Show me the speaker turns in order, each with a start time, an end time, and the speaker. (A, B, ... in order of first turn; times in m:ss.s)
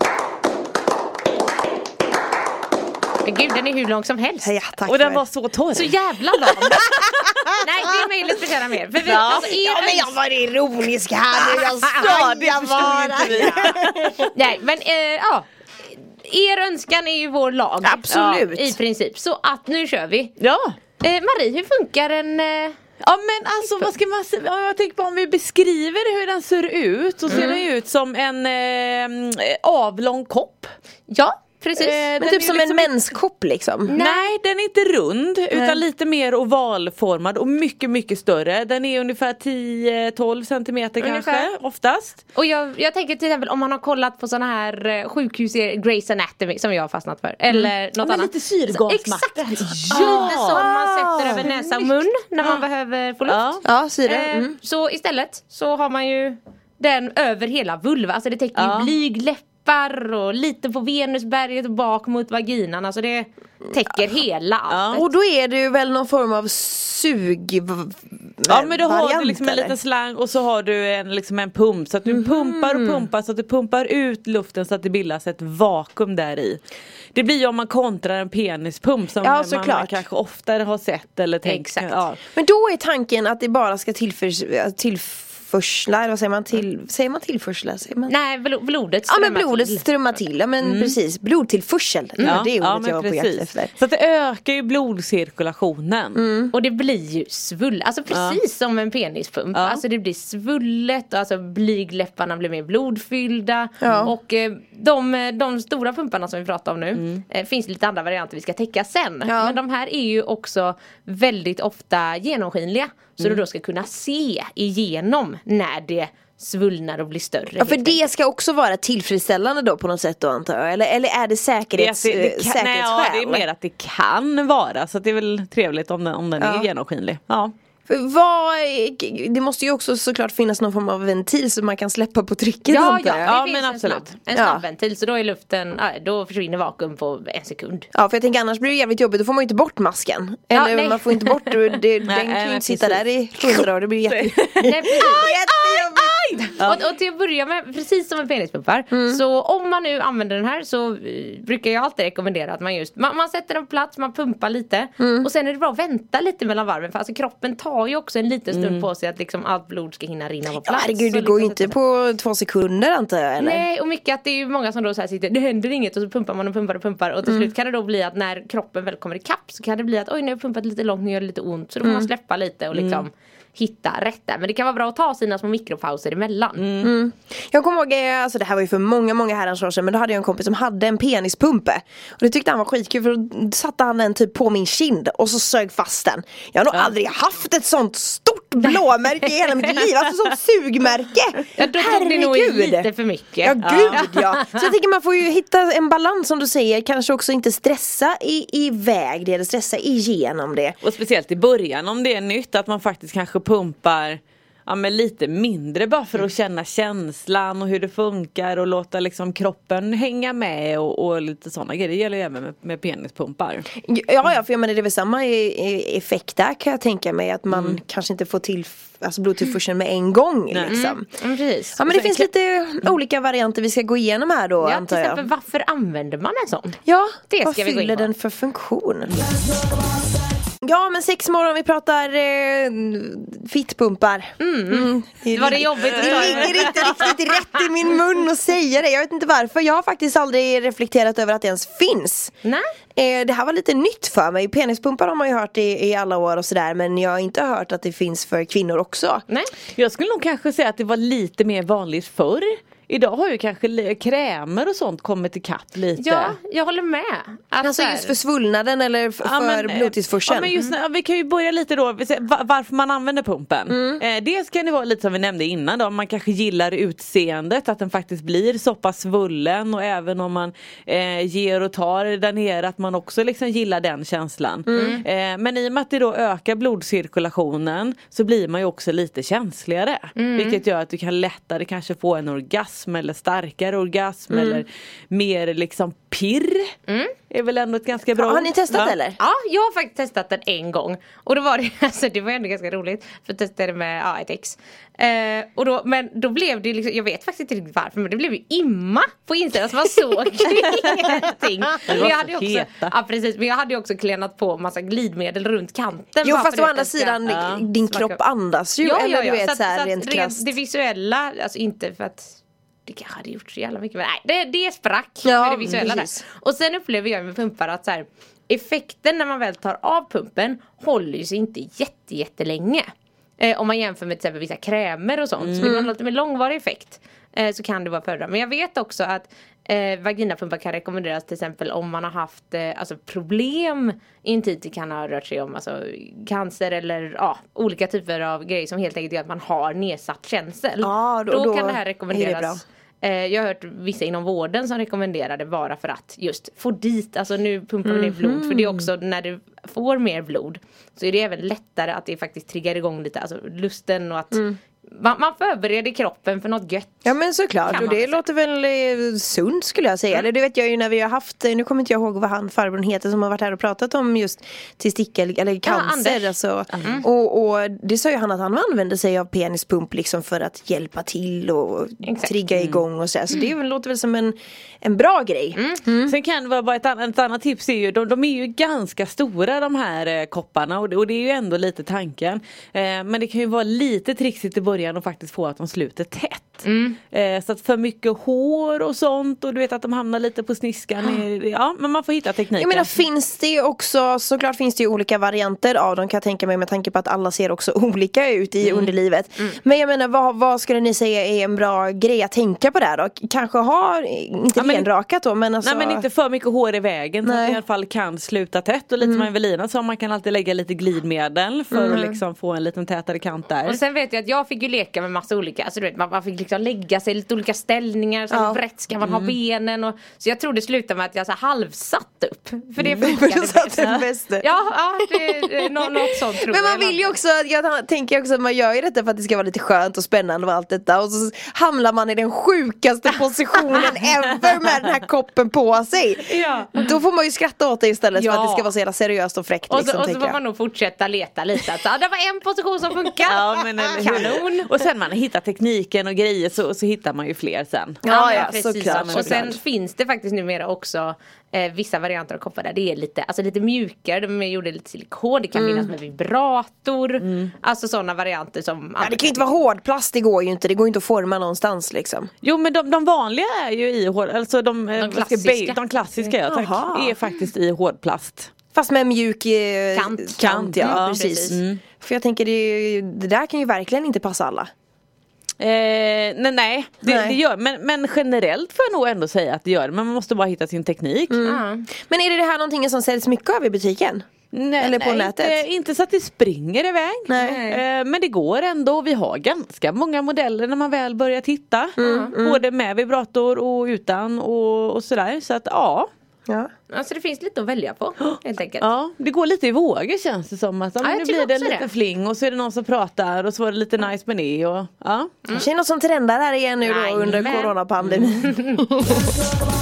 0:03.2-0:04.5 A
0:04.4-0:05.2 B
0:04.9-0:05.9 C
0:05.7-0:06.8 A
0:06.6-0:08.1 B
0:07.6-0:10.1 A
0:09.0-0:09.5 C
0:09.4-0:14.3 B
0:11.4-0:14.3 C
0:13.4-0:13.6 A
0:14.3-0:20.3 A
0:17.8-0:18.8 B
0:18.1-0:18.5 C
0:20.4-0:20.8 C
0:21.0-0:22.8 A
0:23.0-0:30.7 C
0:27.3-0:27.6 B
0:27.3-0:27.6 A
0:31.1-0:32.0 A
0:31.8-0:32.9 C
0:32.2-0:33.9 B
0:33.9-0:34.3 A
0:34.0-0:42.2 C
0:35.5-0:35.8 B
0:41.0-0:41.5 A
0:42.3-0:53.5 A
0:47.5-0:52.6 C
0:49.9-0:50.6 B
0:53.2-0:53.6 C
0:53.6-0:54.6 B
0:54.0-1:05.1 A
0:58.6-0:58.9 C
1:04.7-1:05.0 C
1:04.9-1:09.8 B
1:08.5-1:16.6 C
1:12.1-1:13.1 B
1:17.2-1:22.2 C
1:19.2-1:20.0 B
1:21.5-1:22.0 A
1:22.3-1:28.2 B
1:28.1-1:30.2 A
1:29.1-1:33.7 B
1:30.6-1:31.0 C
1:32.2-1:36.2 C
1:36.2-1:36.5 B
1:36.5-1:58.0 A
1:38.1-1:38.4 C
1:39.5-1:39.8 C
1:43.8-1:44.1 B
1:47.0-1:47.2 C
1:49.3-1:49.6 B
1:57.6-2:03.4 B
2:01.8-2:07.5 C
2:06.4-2:06.7 B
2:07.9-2:13.3 B
2:12.7-2:17.9 A
2:12.7-2:14.2 C
2:14.3-2:14.6 B
2:17.9-2:26.2 B
2:20.5-2:21.8 A
2:22.1-2:25.2 C
2:24.6-2:41.8 A
2:28.9-2:29.2 B
2:35.0-2:35.3 B
2:38.5-2:38.8 C
2:40.6-2:43.7 B
2:43.4-2:56.7 A
2:47.2-2:47.5 B
2:51.8-2:52.1 B
2:52.7-2:53.0 C
2:56.6-2:56.9 C
2:56.8-3:12.9 B
3:08.6-3:09.8 A
3:11.6-3:14.6 A
3:13.4-3:20.8 B
3:13.6-3:14.1 C
3:20.8-3:33.7 C
3:33.8-3:41.1 B
3:37.5-3:37.8 C
3:40.5-3:40.8 C
3:40.7-3:42.3 A
3:41.8-3:45.3 B
3:44.6-3:46.8 A
3:46.9-3:49.1 B
3:47.3-3:48.1 A
3:50.6-4:02.3 B
3:54.4-3:57.7 A
3:55.8-3:57.0 C
4:03.0-4:09.2 B
4:09.8-4:16.4 C
4:16.0-4:18.2 A
4:17.6-4:20.5 B
4:19.2-4:46.7 C
4:23.7-4:24.0 B
4:34.7-4:35.0 B
4:34.7-4:35.0 A
4:40.2-4:40.6 A
4:44.3-4:44.6 B
4:46.9-4:47.2 A
4:47.3-4:49.0 C
4:48.2-4:49.2 B
4:49.2-5:07.2 A
5:01.9-5:02.9 C
5:06.2-5:10.5 B
5:07.3-5:07.6 C
5:07.8-5:08.2 A
5:08.8-5:22.9 A
5:15.2-5:16.2 B
5:23.4-5:57.1 A
5:25.4-5:25.8 C
5:40.8-5:42.6 B
5:47.8-5:48.9 B
5:57.0-6:16.2 B
5:57.7-5:58.2 A
5:57.7-5:58.0 C
6:05.6-6:07.1 A
6:06.7-6:07.0 C
6:12.0-6:12.3 A
6:12.5-6:12.8 C
6:15.6-6:15.8 A
6:16.1-6:32.9 C
6:26.6-6:27.0 A
6:32.6-6:46.0 B
6:38.6-6:38.9 C
6:44.6-6:44.9 C
6:45.6-6:53.8 C
6:47.2-6:47.6 B
6:49.0-6:49.3 B
6:51.7-6:52.1 B
6:53.6-7:07.1 A
6:58.3-6:58.6 B
6:59.0-6:59.3 C
7:02.8-7:03.1 C
7:03.0-7:04.5 B
7:05.0-7:05.5 B
7:06.3-7:20.4 B
7:16.3-7:17.0 A
7:18.2-7:18.7 A
7:19.7-7:24.7 A
7:23.3-7:29.6 C
7:28.0-7:29.6 B
7:28.0-7:39.6 A
7:35.6-7:35.9 B
7:37.2-7:37.5 C
7:39.0-7:42.3 B
7:42.4-7:48.5 C
7:45.0-7:46.3 A
7:46.5-7:47.2 B
7:48.7-7:54.7 B
7:49.9-7:51.6 A
7:50.4-7:51.8 C
7:55.6-8:01.5 C
7:57.0-7:57.4 B
8:01.3-8:04.2 B
8:01.4-8:01.9 A
8:04.5-8:16.1 C
8:04.8-8:05.6 B
8:07.3-8:07.6 B
8:07.4-8:07.8 A
8:12.0-8:12.6 B
8:12.0-8:12.3 A
8:16.9-8:18.9 A
8:18.2-8:25.4 C
8:21.0-8:21.9 A
8:25.5-8:29.4 B
8:26.8-8:28.8 A